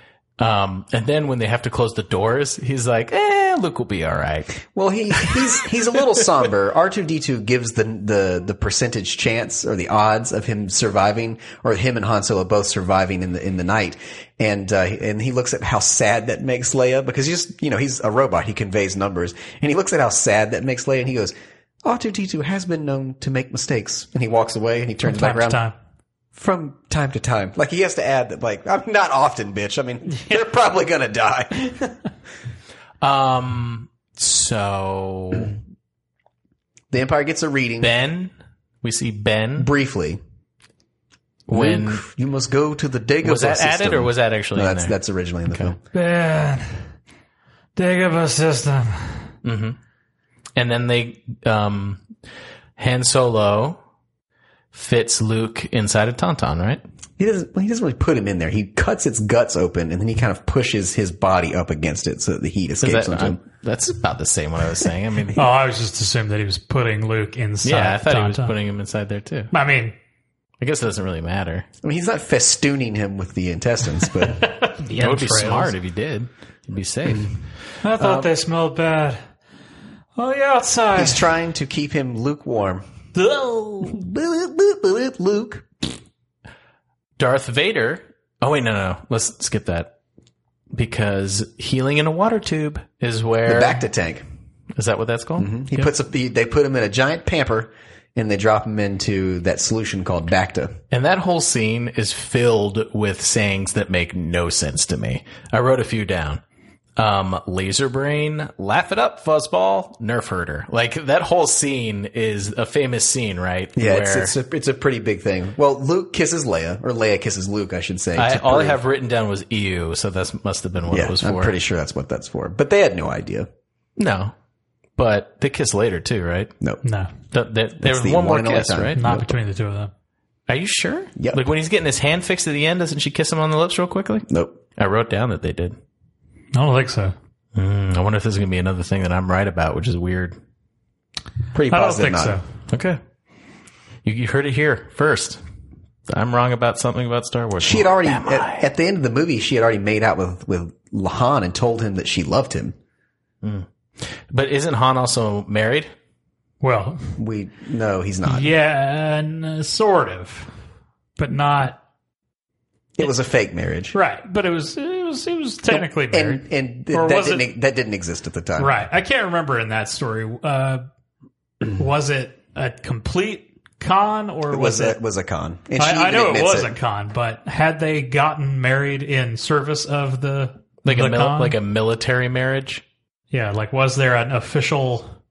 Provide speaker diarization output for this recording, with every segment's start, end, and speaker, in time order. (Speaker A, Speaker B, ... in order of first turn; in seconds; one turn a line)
Speaker A: 0.4-4.6
Speaker B: 4.7-25.6
Speaker C: 25.0-25.8
Speaker B: 26.4-32.0
Speaker A: 33.0-35.6
Speaker B: 36.9-37.9
Speaker A: 37.8-38.3
Speaker A: 38.8-39.7
Speaker B: 39.6-40.2
Speaker A: 41.5-42.0
Speaker B: 41.5-45.8
Speaker A: 43.2-45.0
Speaker C: 45.9-46.9
Speaker C: 47.8-49.3
Speaker A: 49.4-49.8
Speaker A: 50.6-52.0
Speaker A: 52.8-53.8
Speaker A: 54.7-56.8
Speaker B: 57.2-63.4
Speaker A: 62.8-65.5
Speaker C: 65.3-68.5
Speaker A: 67.6-69.5
Speaker C: 69.5-69.9
Speaker A: 70.6-71.7
Speaker B: 71.8-74.5
Speaker C: 74.2-75.7
Speaker A: 75.0-77.4
Speaker C: 77.8-79.2
Speaker A: 78.0-78.3
Speaker C: 80.2-81.3
Speaker B: 81.0-82.8
Speaker C: 83.1-84.0
Speaker B: 83.8-85.7
Speaker A: 87.2-89.9
Speaker A: 90.7-93.8
Speaker B: 93.5-94.2
Speaker A: 94.8-95.9
Speaker B: 95.4-100.8
Speaker A: 100.9-106.4
Speaker A: 107.0-114.3
Speaker B: 113.8-118.8
Speaker A: 118.2-121.5
Speaker B: 120.9-123.5
Speaker A: 124.0-124.3
Speaker A: 125.0-126.5
Speaker C: 126.8-127.1
Speaker A: 127.3-129.0
Speaker B: 127.8-129.3
Speaker C: 129.0-129.9
Speaker A: 130.5-135.8
Speaker B: 131.2-131.4
Speaker B: 134.3-134.6
Speaker C: 136.5-137.1
Speaker A: 137.6-140.4
Speaker B: 141.5-142.4
Speaker C: 141.7-142.4
Speaker A: 142.7-143.0
Speaker A: 144.1-145.4
Speaker A: 146.1-148.6
Speaker B: 147.6-152.8
Speaker A: 153.4-155.9
Speaker C: 156.6-157.2
Speaker B: 157.2-158.5
Speaker C: 158.2-160.5
Speaker C: 161.2-161.8
Speaker B: 163.0-163.9
Speaker C: 163.9-167.4
Speaker B: 165.7-168.8
Speaker C: 168.6-170.8
Speaker C: 171.7-175.0
Speaker B: 174.5-176.8
Speaker C: 175.8-181.6
Speaker A: 180.8-182.8
Speaker C: 183.3-185.2